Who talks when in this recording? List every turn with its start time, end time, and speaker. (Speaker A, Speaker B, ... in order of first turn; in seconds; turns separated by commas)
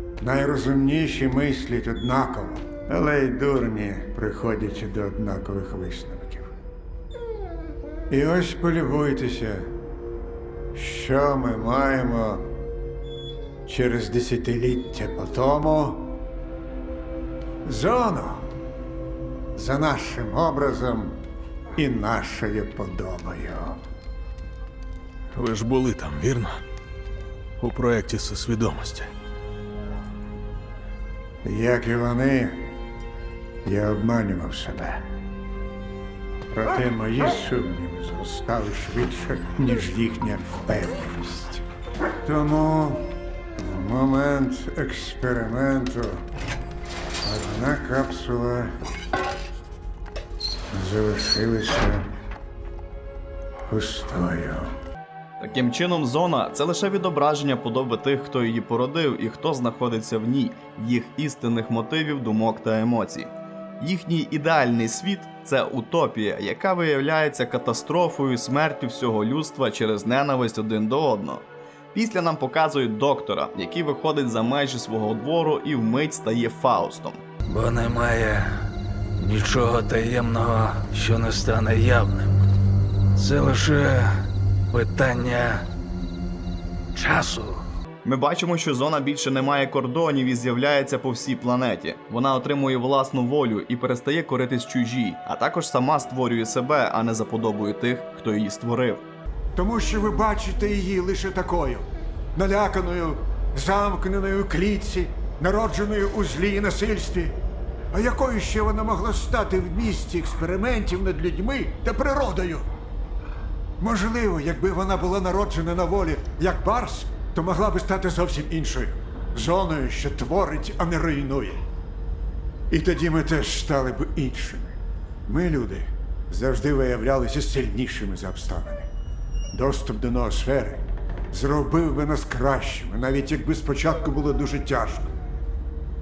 Speaker A: 0.2-6.5, Speaker A: 8.1-9.7, Speaker A: 10.7-12.5, Speaker A: 13.7-16.2, Speaker A: 17.6-18.5, Speaker A: 19.5-21.2, Speaker A: 21.8-23.8, Speaker B: 25.3-26.6, Speaker B: 27.6-29.1, Speaker A: 31.4-32.7, Speaker A: 33.6-35.1, Speaker A: 36.5-41.6, Speaker A: 42.2-46.2, Speaker A: 47.2-48.7, Speaker A: 50.7-52.1, Speaker A: 53.7-54.7, Speaker C: 55.4-71.4, Speaker C: 71.9-77.2, Speaker D: 77.5-78.5, Speaker D: 79.2-82.4, Speaker D: 83.1-85.7, Speaker D: 86.9-87.6, Speaker C: 88.0-99.0, Speaker A: 99.5-112.7, Speaker A: 113.8-121.6, Speaker A: 122.7-124.7, Speaker A: 125.2-128.9, Speaker A: 129.5-135.1